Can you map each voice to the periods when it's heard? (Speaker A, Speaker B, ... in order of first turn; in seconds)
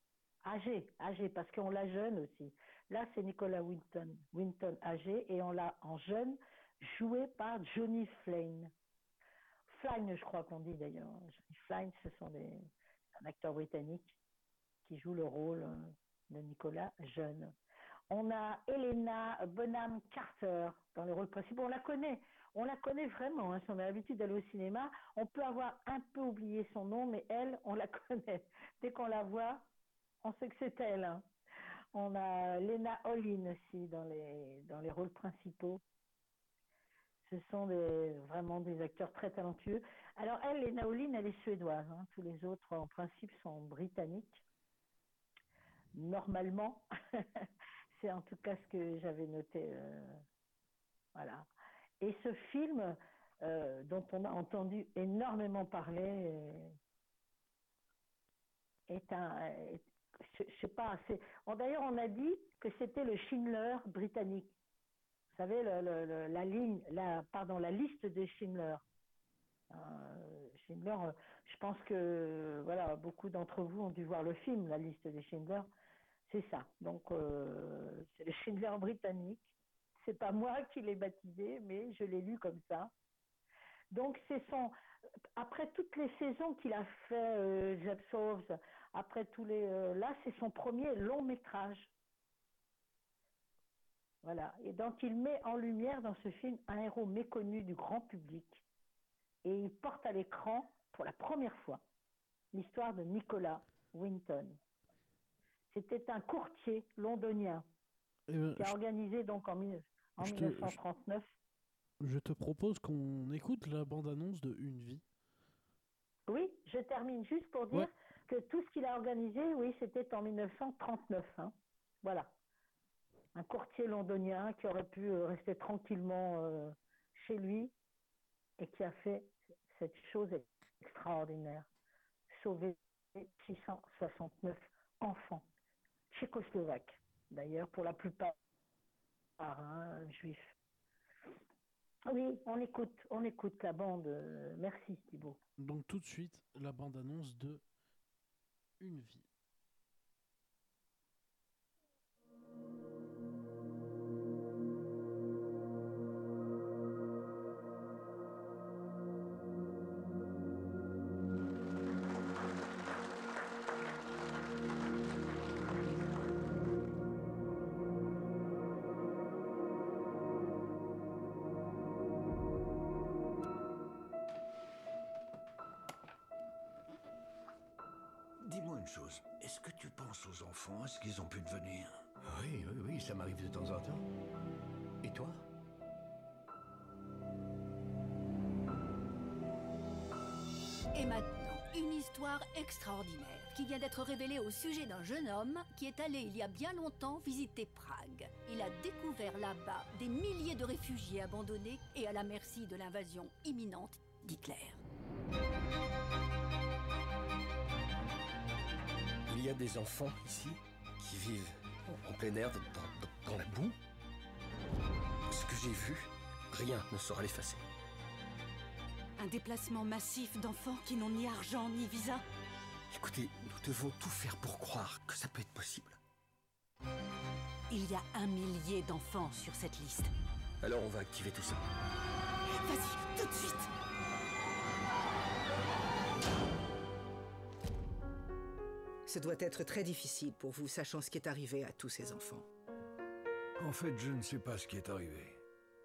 Speaker A: 0.5-8.7, 9.7-12.6, 13.2-14.2, 14.8-17.5, 18.1-29.7, 30.2-31.3, 31.9-35.8, 37.3-44.4, 46.0-50.2, 51.1-51.5, 52.0-56.8, 58.9-64.5, 65.3-68.8, 69.7-75.7, 76.3-82.9, 83.9-84.8, 85.4-91.9, 94.2-98.6, 99.5-101.8, 102.5-104.6, 105.7-107.7, 108.6-111.3, 116.3-122.3, 123.3-127.7, 128.6-131.7, 132.3-135.5, 136.1-138.3, 139.4-140.6, 142.1-145.4
Speaker B: 108.3-108.8, 110.2-110.8, 112.0-115.0, 145.6-147.6, 148.8-149.3
Speaker C: 178.4-184.0, 185.1-185.3, 243.6-245.4
Speaker D: 190.9-204.8
Speaker E: 209.3-213.8, 215.3-217.6, 222.9-226.0, 230.6-231.6
Speaker F: 219.2-222.2, 227.7-230.1, 232.5-233.7
Speaker G: 239.1-242.5